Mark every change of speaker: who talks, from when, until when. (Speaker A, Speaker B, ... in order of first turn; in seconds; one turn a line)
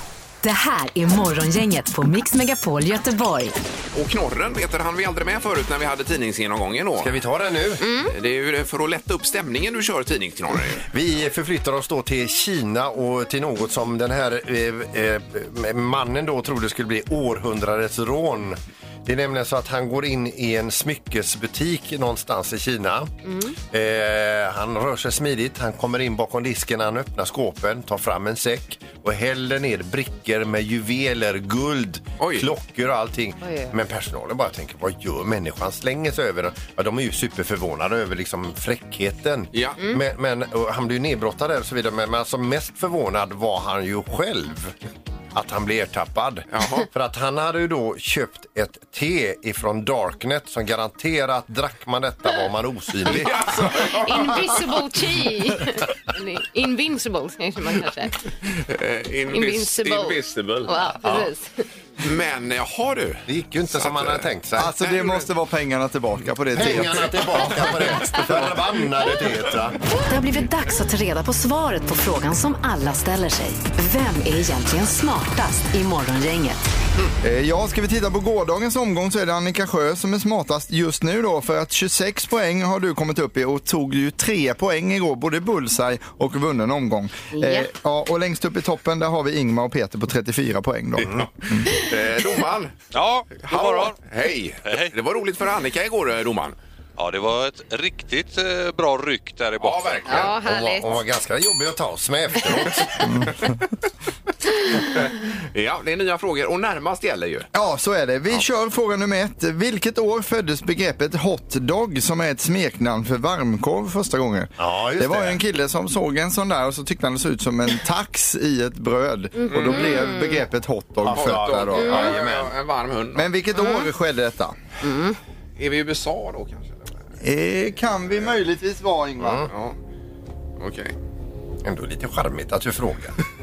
Speaker A: 0.4-3.5
Speaker B: 3.9-7.2
Speaker C: 7.0-7.8
Speaker D: 7.8-8.1
Speaker B: 8.1-10.8
Speaker C: 10.9-23.1
Speaker D: 23.2-23.6
Speaker C: 23.7-44.7
Speaker B: 32.2-32.5
Speaker D: 33.4-33.7
Speaker B: 39.5-39.8
Speaker C: 45.3-53.9
Speaker B: 46.5-46.9
Speaker B: 53.0-54.6
Speaker D: 53.8-58.2
Speaker B: 58.5-60.8
Speaker D: 59.3-61.6
Speaker C: 61.0-61.3
Speaker B: 62.0-64.3
Speaker C: 63.3-64.7
Speaker E: 64.6-67.5
Speaker B: 64.8-65.2
Speaker C: 66.5-69.8
Speaker A: 70.1-76.6
Speaker E: 77.2-91.7
Speaker D: 87.3-87.7
Speaker B: 91.0-92.7
Speaker F: 92.9-94.0
Speaker B: 93.4-96.5
Speaker F: 94.6-94.9
Speaker F: 97.0-100.2
Speaker B: 99.6-100.3
Speaker D: 100.0-100.9
Speaker C: 100.1-103.2
Speaker E: 103.0-103.5
Speaker B: 104.9-107.5
Speaker E: 107.5-122.1
Speaker C: 114.6-115.4
Speaker D: 119.4-120.4
Speaker B: 119.5-119.9
Speaker C: 121.0-122.5
Speaker B: 121.1-123.3
Speaker E: 123.1-124.5
Speaker D: 123.5-123.9
Speaker D: 124.8-125.2
Speaker B: 125.6-127.0
Speaker E: 127.2-129.5
Speaker C: 129.2-129.5
Speaker B: 129.5-129.8
Speaker B: 130.6-130.9
Speaker C: 131.6-133.2